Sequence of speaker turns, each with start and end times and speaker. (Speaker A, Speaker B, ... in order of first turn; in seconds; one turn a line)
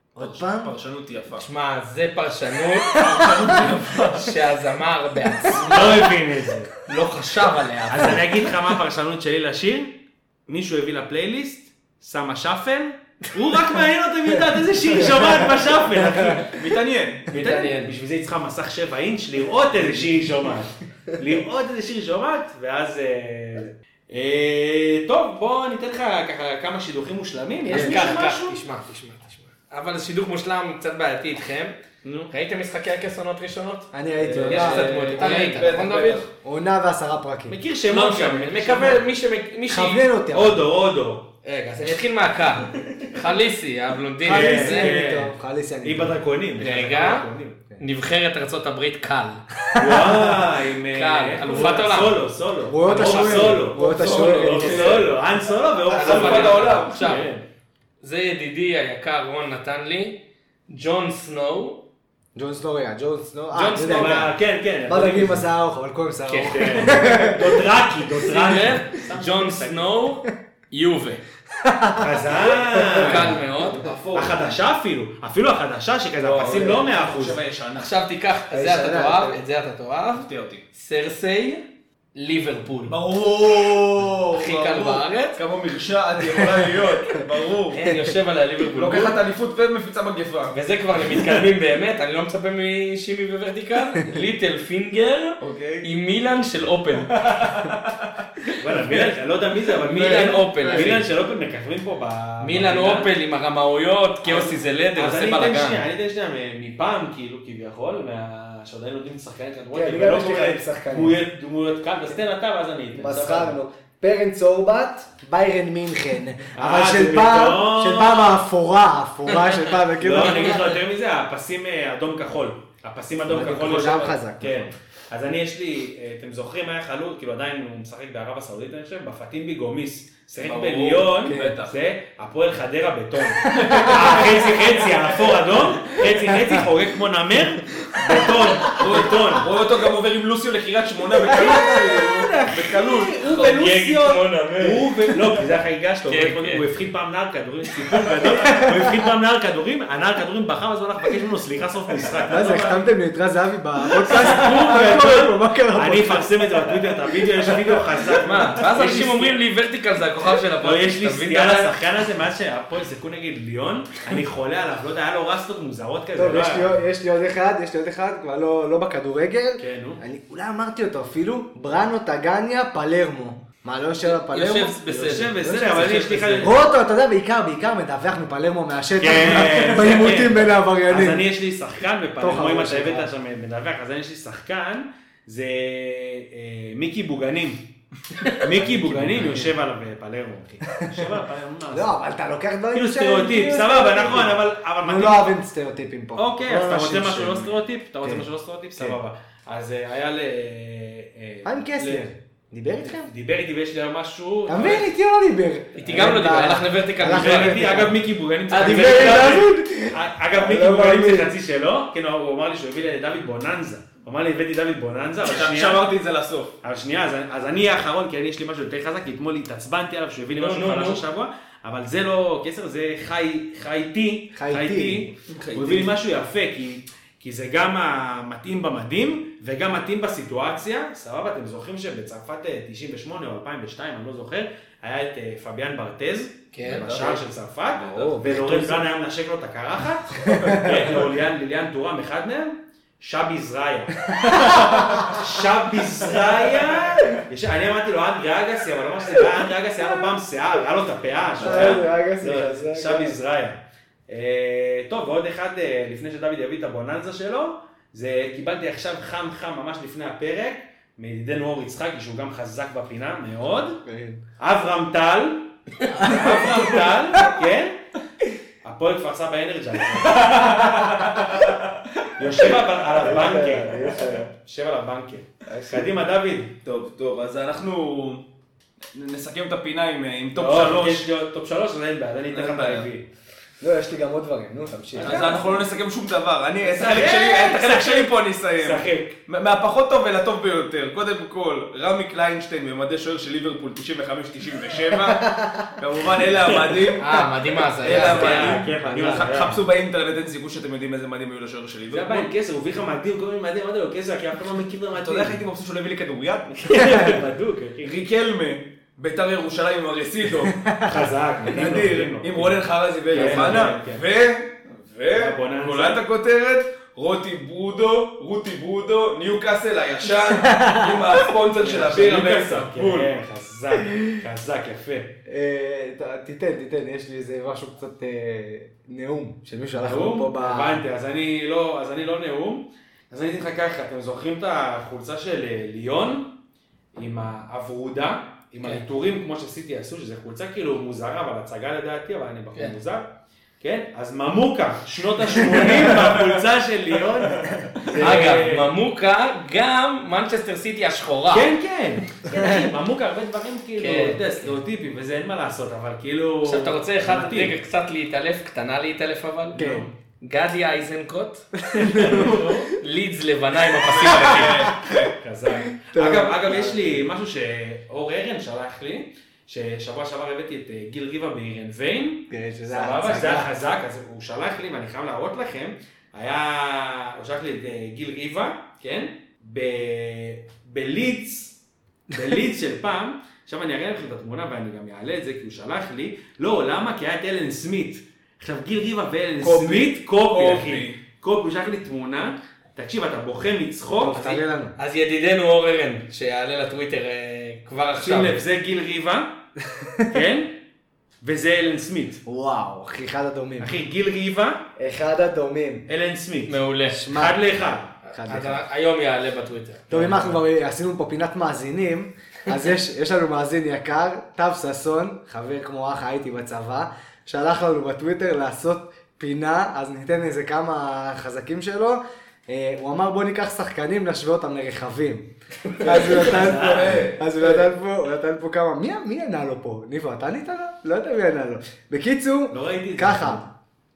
Speaker A: 0.2-0.7
Speaker B: 0.2-1.4
Speaker C: 1.4-5.7
Speaker B: 2.9-4.3
Speaker A: 3.1-3.6
Speaker A: 5.5-6.0
Speaker D: 5.5-6.7
Speaker C: 6.8-8.2
Speaker D: 7.9-16.6
Speaker A: 16.0-16.4
Speaker B: 16.5-17.3
Speaker C: 17.3-17.9
Speaker D: 17.3-28.6
Speaker A: 27.6-28.1
Speaker C: 27.7-31.8
Speaker D: 32.0-32.3
Speaker C: 32.3-36.2
Speaker A: 33.9-35.3
Speaker B: 34.2-36.3
Speaker A: 36.4-37.6
Speaker D: 37.5-39.0
Speaker C: 37.9-40.0
Speaker A: 39.7-40.6
Speaker D: 40.3-41.3
Speaker C: 41.4-44.9
Speaker A: 44.2-46.2
Speaker D: 44.2-47.6
Speaker C: 46.6-47.2
Speaker C: 47.8-50.0
Speaker D: 49.7-57.4
Speaker A: 49.8-50.4
Speaker C: 50.9-52.2
Speaker A: 52.6-55.1
Speaker C: 52.8-54.5
Speaker B: 53.0-57.2
Speaker C: 55.9-57.3
Speaker C: 58.0-61.8
Speaker A: 62.3-64.3
Speaker C: 63.5-64.2
Speaker D: 63.7-65.5
Speaker A: 64.8-67.7
Speaker C: 66.3-66.9
Speaker D: 66.4-70.0
Speaker C: 68.2-71.2
Speaker A: 71.5-73.2
Speaker D: 72.0-73.4
Speaker C: 73.0-74.1
Speaker B: 73.0-74.5
Speaker D: 74.1-77.4
Speaker B: 76.2-77.9
Speaker C: 77.7-81.6
Speaker A: 78.5-79.4
Speaker B: 80.1-80.6
Speaker C: 82.1-82.9
Speaker B: 82.9-87.8
Speaker C: 84.3-85.4
Speaker A: 86.5-86.8
Speaker C: 87.7-89.2
Speaker B: 88.8-90.5
Speaker C: 90.5-97.1
Speaker B: 95.4-95.9
Speaker B: 97.1-98.2
Speaker D: 98.6-103.1
Speaker C: 99.8-101.0
Speaker A: 100.0-100.9
Speaker C: 102.4-105.8
Speaker D: 104.2-113.6
Speaker A: 109.7-111.2
Speaker A: 113.0-120.8
Speaker D: 116.5-118.4
Speaker D: 119.9-139.5
Speaker A: 123.3-124.7
Speaker B: 130.4-131.7
Speaker A: 131.2-131.5
Speaker A: 133.4-134.2
Speaker B: 133.4-135.8
Speaker A: 136.3-136.6
Speaker A: 137.7-139.0
Speaker B: 138.2-143.5
Speaker D: 141.3-152.8
Speaker A: 141.3-142.0
Speaker C: 143.4-145.4
Speaker C: 146.1-146.7
Speaker A: 148.3-149.0
Speaker A: 152.3-156.8
Speaker D: 153.9-159.4
Speaker A: 157.3-158.1
Speaker C: 158.2-161.7
Speaker D: 160.6-166.8
Speaker A: 166.1-174.8
Speaker D: 169.6-170.0
Speaker C: 174.0-176.5
Speaker D: 174.9-176.6
Speaker A: 175.4-181.2
Speaker D: 179.0-187.7
Speaker A: 182.2-183.1
Speaker D: 188.2-191.9
Speaker A: 188.6-189.6
Speaker A: 190.7-191.0
Speaker A: 191.7-198.2
Speaker D: 192.7-195.4
Speaker D: 196.2-202.1
Speaker A: 201.4-203.1
Speaker D: 202.8-204.9
Speaker A: 204.5-208.0
Speaker C: 205.8-207.6
Speaker D: 207.0-215.8
Speaker C: 208.5-209.4
Speaker A: 208.6-211.3
Speaker B: 215.2-216.5
Speaker D: 216.6-263.8
Speaker C: 220.3-221.0
Speaker A: 224.3-225.1
Speaker B: 225.3-225.9
Speaker C: 236.5-236.9
Speaker B: 236.7-237.2
Speaker A: 237.8-238.8
Speaker A: 240.2-240.9
Speaker A: 244.1-245.2
Speaker B: 251.4-251.8
Speaker A: 251.4-253.2
Speaker A: 263.9-264.2
Speaker D: 264.4-267.8
Speaker A: 265.9-267.2
Speaker D: 268.6-270.6
Speaker B: 270.0-274.1
Speaker D: 272.2-276.6
Speaker A: 273.0-274.3
Speaker B: 276.6-278.2
Speaker B: 278.9-281.0
Speaker D: 280.3-283.1
Speaker B: 282.3-282.9
Speaker A: 283.6-285.4
Speaker B: 285.0-297.1
Speaker D: 285.0-285.4
Speaker D: 286.7-289.2
Speaker A: 294.9-295.7
Speaker C: 296.9-298.6
Speaker B: 297.8-302.3
Speaker D: 297.8-299.6
Speaker D: 301.9-305.4
Speaker B: 304.9-306.8
Speaker D: 306.6-308.0
Speaker A: 306.8-307.2
Speaker B: 307.8-310.7
Speaker A: 310.6-310.9
Speaker D: 310.8-314.0
Speaker B: 311.4-323.1
Speaker A: 313.1-313.7
Speaker D: 315.1-316.0
Speaker A: 320.4-321.1
Speaker D: 321.6-325.1
Speaker A: 325.2-330.8
Speaker D: 329.8-336.3
Speaker D: 336.9-343.1
Speaker D: 343.6-348.7
Speaker B: 345.9-346.3
Speaker B: 347.4-348.2
Speaker C: 348.0-351.5
Speaker D: 351.3-357.5
Speaker A: 352.3-352.6
Speaker C: 353.8-354.5
Speaker C: 356.4-364.7
Speaker D: 359.5-359.9
Speaker A: 359.5-359.9
Speaker A: 361.6-362.4
Speaker D: 361.8-362.6
Speaker B: 363.8-365.1
Speaker A: 364.6-364.9
Speaker D: 365.2-381.6
Speaker A: 365.5-367.0
Speaker A: 372.3-373.5
Speaker D: 382.1-394.4
Speaker B: 389.4-391.0
Speaker A: 394.0-394.8
Speaker C: 394.8-398.4
Speaker D: 398.0-399.3
Speaker D: 400.1-400.6
Speaker D: 401.2-402.2
Speaker A: 402.2-403.8
Speaker D: 403.6-404.6
Speaker A: 404.8-405.9
Speaker D: 405.9-408.0
Speaker C: 406.5-407.1
Speaker A: 406.9-407.4
Speaker C: 408.1-410.3
Speaker A: 408.1-408.6
Speaker A: 409.9-433.4
Speaker B: 425.8-427.7
Speaker D: 425.9-427.1
Speaker D: 432.5-433.5